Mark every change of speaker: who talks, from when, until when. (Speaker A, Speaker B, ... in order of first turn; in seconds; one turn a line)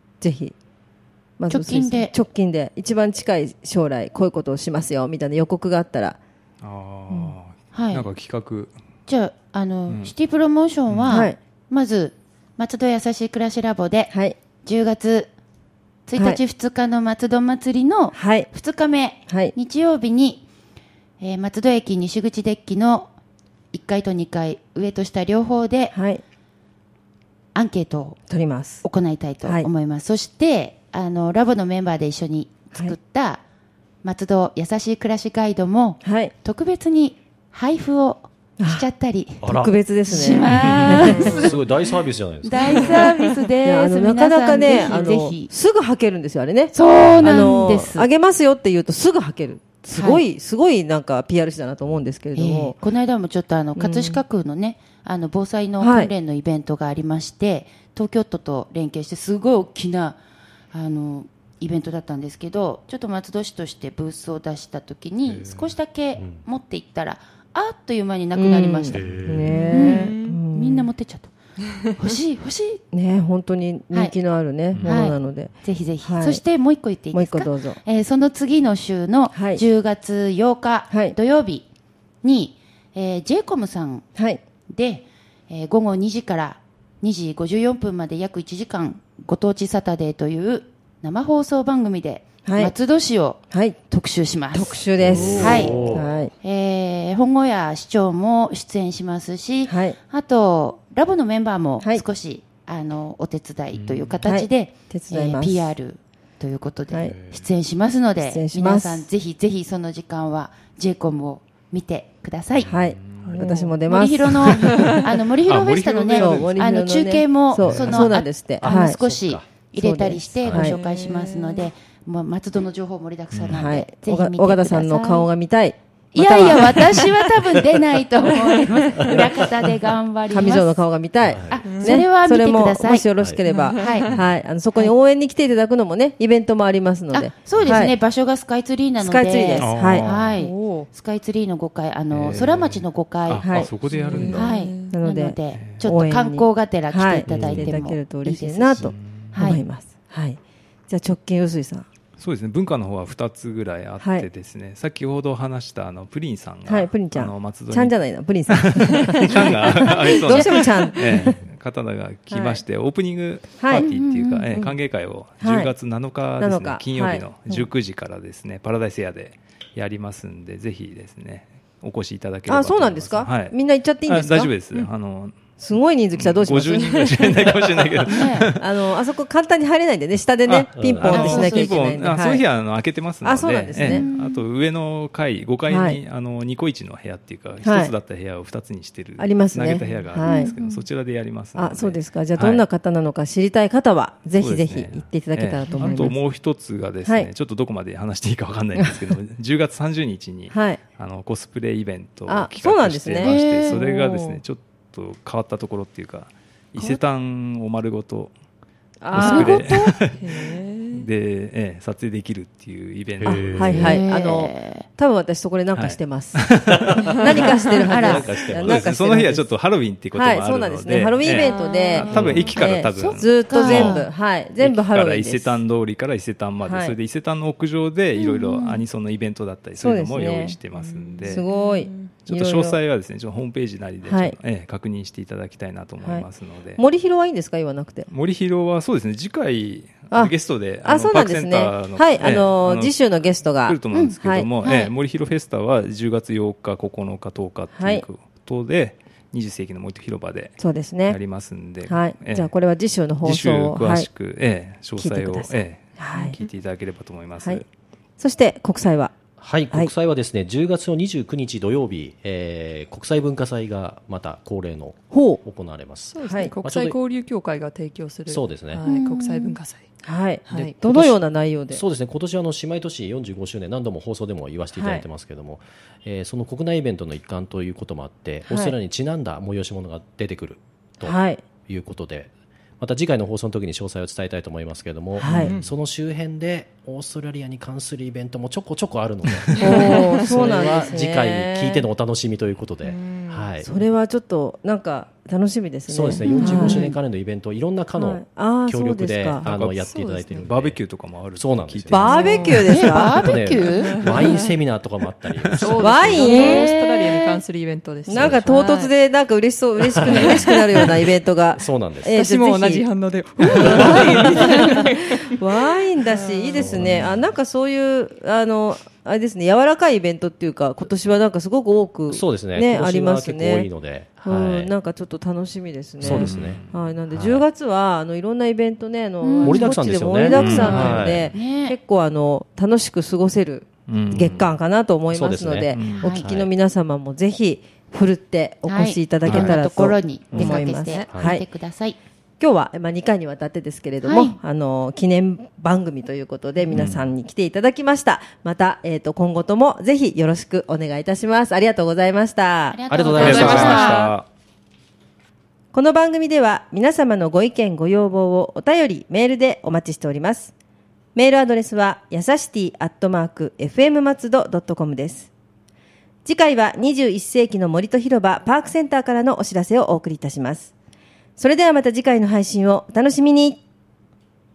Speaker A: 0.2-0.5
Speaker A: 1.4-6.2
Speaker B: 1.5-2.1
Speaker C: 6.6-8.7
Speaker A: 7.1-7.3
Speaker B: 7.7-8.1
Speaker B: 9.1-15.3
Speaker C: 9.9-10.1
Speaker C: 10.9-11.2
Speaker A: 11.1-11.4
Speaker A: 14.1-14.4
Speaker B: 16.1-20.4
Speaker A: 18.1-18.5
Speaker A: 19.3-19.5
Speaker B: 21.2-23.1
Speaker B: 23.7-25.9
Speaker A: 25.9-26.2
Speaker B: 27.5-28.2
Speaker A: 28.3-28.8
Speaker B: 28.8-33.4
Speaker B: 34.0-39.5
Speaker A: 36.0-36.3
Speaker A: 38.6-38.9
Speaker D: 39.4-39.7
Speaker A: 39.4-41.4
Speaker B: 40.0-41.6
Speaker C: 40.5-40.9
Speaker D: 41.0-43.1
Speaker E: 41.0-41.5
Speaker B: 42.4-45.5
Speaker A: 43.6-52.8
Speaker E: 44.8-45.1
Speaker B: 46.7-48.1
Speaker B: 50.0-50.2
Speaker B: 52.3-60.2
Speaker A: 53.8-54.2
Speaker A: 55.8-56.1
Speaker B: 60.7-69.1
Speaker C: 65.2-65.7
Speaker A: 68.3-70.9
Speaker D: 68.9-69.5
Speaker E: 69.5-70.4
Speaker B: 69.7-71.3
Speaker E: 71.7-72.1
Speaker B: 72.0-72.8
Speaker A: 72.9-76.4
Speaker C: 74.7-75.1
Speaker B: 74.8-81.6
Speaker A: 77.1-77.8
Speaker A: 79.3-79.6
Speaker A: 80.9-81.2
Speaker B: 82.2-84.0
Speaker B: 84.7-94.8
Speaker A: 92.4-92.7
Speaker A: 93.5-93.8
Speaker A: 94.5-96.3
Speaker D: 95.0-96.1
Speaker C: 95.0-95.7
Speaker B: 95.4-112.7
Speaker A: 99.7-100.0
Speaker C: 103.7-104.2
Speaker A: 104.2-105.7
Speaker A: 106.9-107.2
Speaker C: 107.1-107.5
Speaker A: 108.2-109.1
Speaker C: 112.5-113.5
Speaker A: 112.7-114.8
Speaker E: 113.2-113.7
Speaker B: 113.5-125.3
Speaker C: 114.4-116.5
Speaker E: 114.6-115.0
Speaker A: 116.1-119.0
Speaker C: 117.6-118.1
Speaker D: 118.6-119.5
Speaker A: 119.8-120.8
Speaker D: 120.4-120.7
Speaker E: 120.8-121.7
Speaker C: 123.3-123.7
Speaker A: 123.5-126.8
Speaker B: 126.1-130.9
Speaker E: 128.3-129.2
Speaker A: 130.3-137.9
Speaker D: 131.2-131.7
Speaker B: 131.5-133.1
Speaker E: 131.6-132.0
Speaker E: 133.4-134.1
Speaker B: 133.8-134.1
Speaker B: 137.1-143.7
Speaker A: 139.0-140.1
Speaker C: 139.6-140.3
Speaker E: 140.3-140.9
Speaker C: 142.1-144.5
Speaker A: 143.4-151.8
Speaker E: 143.8-145.0
Speaker B: 144.3-149.6
Speaker C: 145.5-145.8
Speaker C: 147.3-147.7
Speaker C: 148.9-149.5
Speaker C: 152.2-175.4
Speaker A: 154.0-154.3
Speaker A: 156.7-161.4
Speaker E: 160.6-161.2
Speaker A: 162.3-162.6
Speaker A: 163.6-163.8
Speaker B: 163.7-164.5
Speaker A: 165.4-165.7
Speaker A: 166.4-167.3
Speaker A: 172.5-174.5
Speaker A: 175.6-177.3
Speaker C: 176.1-178.6
Speaker B: 178.1-178.5
Speaker A: 178.6-182.4
Speaker C: 180.4-192.6
Speaker D: 180.8-181.2
Speaker B: 181.1-181.8
Speaker A: 183.2-184.0
Speaker B: 183.8-184.4
Speaker A: 185.7-186.0
Speaker A: 187.6-187.9
Speaker A: 189.2-190.5
Speaker B: 190.2-190.8
Speaker A: 191.5-196.2
Speaker C: 194.3-208.3
Speaker A: 197.0-197.3
Speaker A: 200.5-200.8
Speaker A: 202.3-203.4
Speaker B: 203.2-203.8
Speaker E: 203.8-204.4
Speaker A: 209.0-209.7
Speaker C: 209.1-210.2
Speaker B: 209.1-210.0
Speaker E: 210.2-211.1
Speaker C: 210.9-213.8
Speaker D: 213.2-214.0
Speaker A: 213.5-216.4
Speaker B: 213.7-214.8
Speaker C: 215.7-217.0
Speaker D: 216.8-218.9
Speaker A: 217.2-219.5
Speaker B: 217.9-218.3
Speaker C: 218.6-223.9
Speaker A: 220.1-225.6
Speaker E: 221.2-222.7
Speaker D: 222.1-222.5
Speaker B: 222.9-224.0
Speaker E: 223.8-224.1
Speaker C: 224.6-231.4
Speaker A: 226.6-226.9
Speaker B: 228.1-228.8
Speaker A: 229.8-230.6
Speaker E: 230.7-232.2
Speaker A: 231.2-232.8
Speaker C: 232.2-236.8
Speaker A: 234.0-234.3
Speaker A: 236.0-238.1
Speaker C: 238.1-252.6
Speaker A: 240.8-244.5
Speaker B: 243.9-244.9
Speaker A: 247.7-248.0
Speaker A: 250.6-251.2
Speaker A: 251.8-254.1
Speaker C: 253.2-257.7
Speaker A: 255.0-256.4
Speaker E: 256.1-256.5
Speaker A: 257.4-257.6
Speaker A: 258.2-259.1
Speaker D: 259.4-266.9
Speaker A: 265.1-265.4
Speaker E: 266.1-269.9
Speaker A: 266.2-266.5
Speaker D: 268.3-268.8
Speaker B: 268.8-269.6
Speaker A: 270.0-271.8
Speaker E: 270.4-270.8
Speaker D: 270.8-281.2
Speaker A: 274.7-275.1
Speaker A: 278.5-278.7
Speaker A: 281.0-281.4
Speaker D: 281.7-293.7
Speaker A: 285.2-285.6
Speaker E: 285.4-285.7
Speaker E: 289.4-289.9
Speaker A: 289.6-291.9
Speaker E: 292.8-293.5
Speaker A: 293.6-297.0
Speaker D: 295.9-300.8
Speaker B: 296.2-296.9
Speaker E: 296.3-296.8
Speaker A: 298.0-299.5
Speaker C: 299.4-302.1
Speaker E: 299.8-300.4
Speaker D: 301.3-302.1
Speaker A: 301.9-303.3
Speaker E: 302.1-302.7
Speaker B: 302.6-304.1
Speaker D: 302.7-306.6
Speaker E: 303.8-304.5
Speaker C: 305.4-305.8
Speaker E: 305.6-308.9
Speaker A: 305.8-306.7
Speaker B: 306.2-307.4
Speaker D: 308.1-308.6
Speaker A: 308.1-312.9
Speaker E: 309.9-310.9
Speaker D: 310.0-310.5
Speaker D: 311.5-312.1
Speaker E: 312.1-316.8
Speaker A: 313.5-314.4
Speaker D: 313.6-314.3
Speaker A: 315.3-323.7
Speaker D: 316.6-317.1
Speaker C: 316.8-317.2
Speaker D: 322.1-324.7
Speaker A: 324.2-341.4
Speaker C: 326.0-326.8
Speaker D: 326.0-327.4
Speaker B: 329.2-329.7
Speaker D: 329.4-331.3
Speaker C: 330.3-331.1
Speaker B: 330.4-331.8
Speaker C: 333.9-334.5
Speaker D: 335.1-336.5
Speaker C: 335.7-336.1
Speaker B: 336.0-336.2
Speaker B: 338.6-342.0
Speaker C: 339.2-339.6
Speaker E: 340.6-341.1
Speaker A: 342.4-353.8
Speaker B: 344.0-344.4
Speaker C: 346.7-347.1
Speaker B: 352.7-354.1
Speaker D: 352.9-354.0
Speaker C: 353.1-354.3
Speaker A: 355.7-360.5
Speaker A: 361.1-365.3
Speaker A: 366.2-370.7
Speaker A: 371.4-373.6